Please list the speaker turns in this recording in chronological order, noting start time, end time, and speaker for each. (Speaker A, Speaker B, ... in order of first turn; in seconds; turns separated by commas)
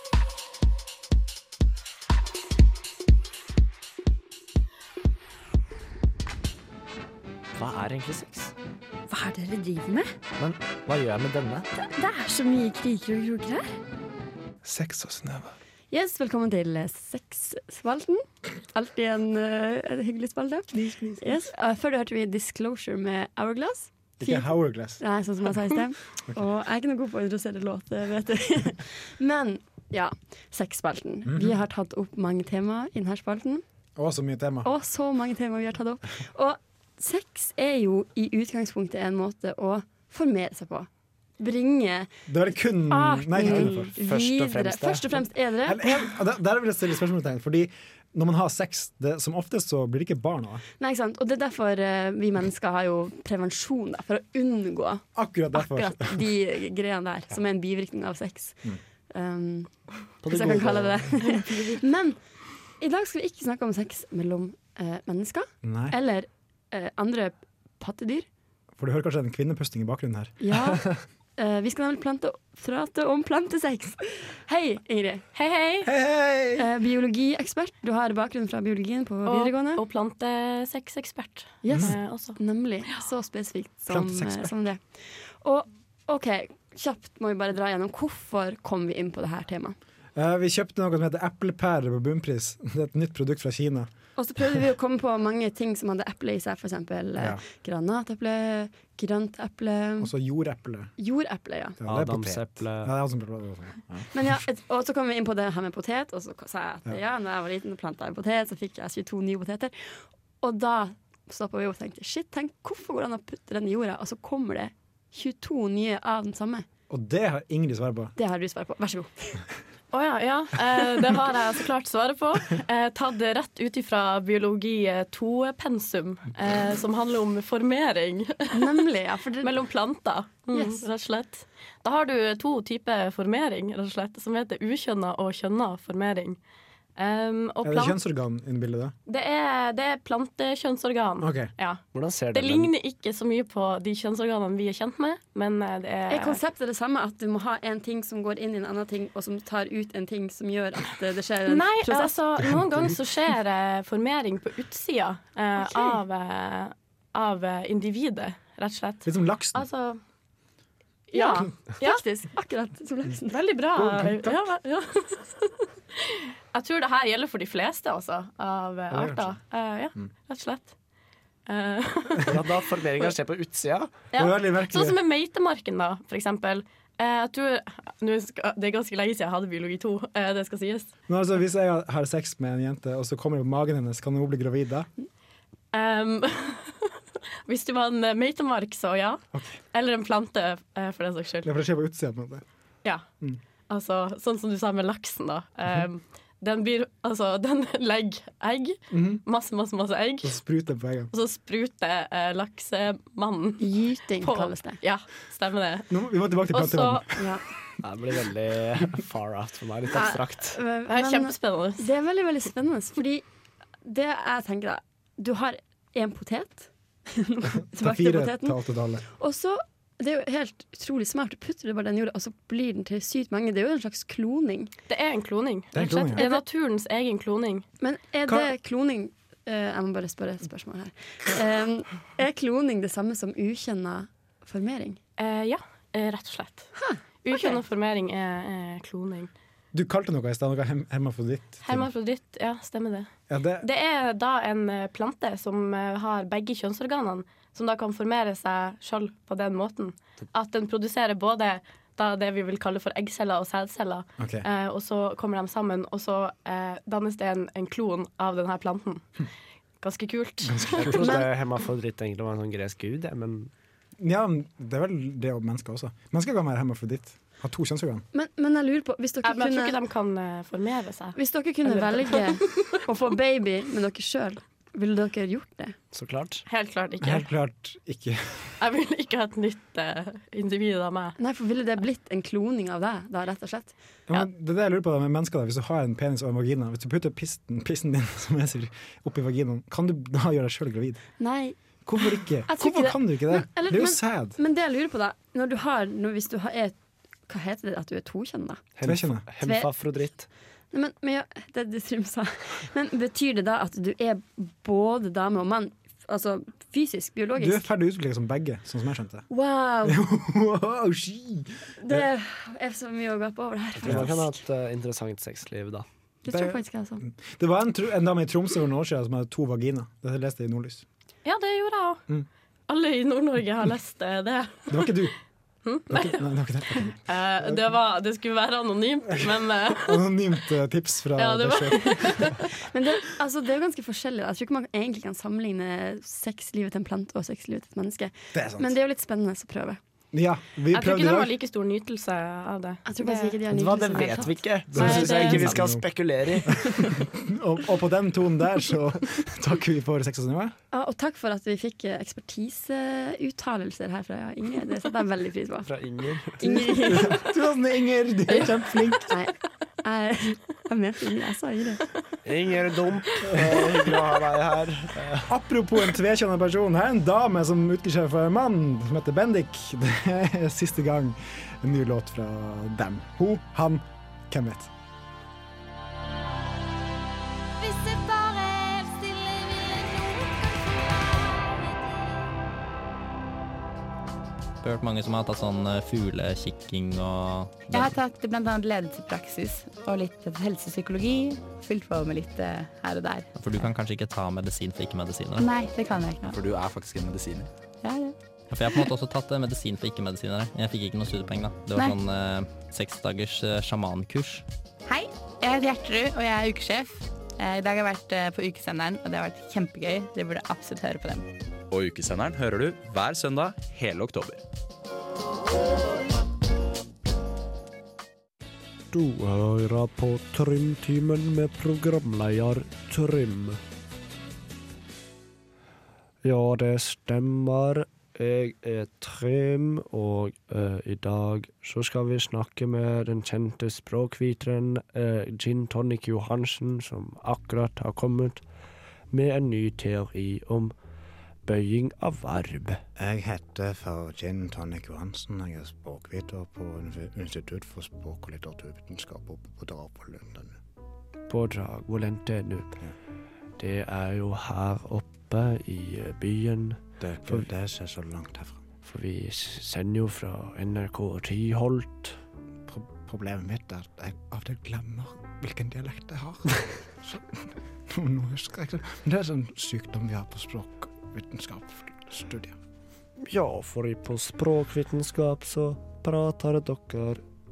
Speaker A: 7.5-8.5, Speaker B: 9.1-10.1, Speaker A: 10.4-11.7, Speaker B: 11.8-13.8, Speaker C: 14.6-15.5, Speaker B: 15.9-33.6, Speaker C: 20.8-21.1, Speaker C: 24.2-25.0, Speaker C: 31.2-31.5, Speaker C: 34.0-34.7, Speaker B: 34.6-40.9, Speaker B: 41.4-42.1, Speaker C: 42.3-43.9, Speaker B: 42.9-46.1, Speaker A: 43.4-45.2, Speaker C: 45.6-50.6, Speaker B: 50.8-59.7, Speaker C: 55.1-56.3, Speaker A: 60.2-61.5, Speaker B: 60.2-62.2, Speaker B: 62.8-68.2, Speaker C: 65.6-65.9, Speaker C: 68.8-70.5, Speaker B: 70.4-70.8, Speaker B: 71.4-75.2, Speaker D: 75.3-75.9, Speaker C: 75.8-76.7, Speaker B: 76.6-79.8, Speaker D: 79.2-82.4, Speaker B: 81.6-89.8, Speaker C: 83.9-84.5, Speaker C: 90.1-93.9, Speaker B: 94.2-100.1, Speaker C: 100.0-100.9, Speaker B: 101.0-101.8, Speaker C: 101.8-104.4, Speaker A: 101.8-102.9, Speaker B: 104.1-116.7, Speaker C: 116.9-118.1, Speaker B: 118.2-119.4, Speaker D: 119.9-128.8, Speaker B: 128.5-129.5, Speaker D: 129.4-136.4, Speaker B: 130.5-130.8, Speaker D: 136.9-138.0, Speaker C: 137.6-138.9, Speaker D: 139.1-141.8, Speaker C: 141.2-141.5, Speaker A: 141.9-142.7, Speaker D: 142.3-146.4, Speaker B: 146.1-152.2, Speaker D: 151.5-160.0, Speaker C: 152.4-152.9, Speaker B: 155.6-156.0, Speaker C: 159.0-159.6, Speaker D: 161.1-162.0, Speaker B: 161.1-163.4, Speaker D: 163.3-170.7, Speaker C: 163.8-164.4, Speaker C: 168.9-169.4, Speaker D: 171.5-173.1, Speaker A: 172.2-173.9, Speaker D: 174.1-180.9, Speaker C: 174.1-175.0, Speaker C: 181.1-184.9, Speaker D: 185.7-186.9, Speaker D: 187.4-191.5, Speaker C: 189.3-189.6, Speaker C: 191.4-192.4, Speaker D: 193.7-200.4, Speaker C: 198.9-199.2, Speaker C: 200.2-201.1, Speaker D: 201.1-203.7, Speaker B: 203.6-204.8, Speaker D: 204.2-206.0, Speaker C: 205.9-207.2, Speaker D: 206.5-207.1, Speaker B: 207.2-207.4, Speaker A: 207.8-210.6, Speaker B: 209.9-213.2, Speaker D: 210.9-211.8, Speaker B: 213.8-218.6, Speaker C: 217.5-219.1, Speaker B: 219.1-224.7, Speaker D: 224.9-227.7, Speaker C: 225.7-226.2, Speaker B: 226.2-226.4, Speaker B: 227.8-235.0, Speaker D: 235.2-236.7, Speaker B: 236.8-237.6, Speaker D: 237.2-239.3, Speaker C: 239.7-241.9, Speaker D: 241.6-259.2, Speaker C: 243.3-243.7, Speaker C: 254.2-254.4, Speaker D: 259.8-260.9, Speaker C: 260.4-261.1, Speaker A: 260.8-263.5, Speaker C: 264.0-268.0, Speaker B: 268.1-269.8, Speaker D: 269.2-272.7, Speaker B: 271.1-275.8, Speaker A: 275.9-276.4, Speaker D: 276.5-277.3, Speaker C: 277.0-278.5, Speaker D: 278.6-281.1, Speaker B: 281.2-283.7, Speaker C: 284.1-291.0, Speaker B: 291.2-296.8, Speaker C: 291.8-294.4, Speaker B: 297.3-298.6, Speaker A: 298.8-300.3, Speaker C: 298.8-299.2, Speaker B: 299.4-299.7, Speaker B: 300.7-307.6, Speaker C: 307.4-309.2, Speaker B: 309.3-310.0, Speaker C: 309.8-312.1, Speaker B: 311.8-314.4, Speaker A: 313.8-315.8, Speaker B: 316.2-317.0, Speaker C: 316.3-320.8, Speaker D: 321.2-322.0, Speaker D: 322.7-325.0, Speaker C: 324.7-325.1, Speaker D: 325.6-330.2, Speaker C: 325.9-327.7, Speaker C: 329.2-332.4, Speaker D: 331.1-332.4, Speaker B: 332.5-339.8, Speaker C: 338.3-338.7, Speaker C: 340.1-341.3, Speaker D: 340.7-343.4, Speaker B: 342.9-345.2, Speaker A: 343.5-346.9, Speaker C: 344.7-345.9, Speaker D: 344.8-345.5, Speaker C: 346.4-350.5, Speaker B: 350.7-355.7, Speaker A: 355.6-356.9, Speaker B: 356.4-357.3, Speaker C: 356.7-359.1, Speaker B: 359.1-361.9, Speaker A: 362.2-365.3, Speaker C: 365.3-374.7, Speaker E: 377.6-381.8, Speaker F: 384.6-388.0, Speaker G: 387.7-393.3, Speaker F: 393.3-395.5, Speaker G: 395.4-396.4, Speaker H: 396.3-397.5, Speaker G: 397.8-398.1, Speaker F: 398.5-404.4, Speaker G: 404.9-411.3, Speaker H: 411.7-414.4, Speaker A: 418.9-423.6, Speaker A: 426.2-438.4, Speaker A: 439.1-440.7, Speaker A: 441.4-442.8, Speaker C: 443.0-450.6, Speaker A: 451.3-452.7, Speaker A: 453.6-457.5, Speaker C: 457.0-458.6, Speaker A: 458.8-462.2, Speaker C: 462.7-472.6, Speaker A: 473.2-477.2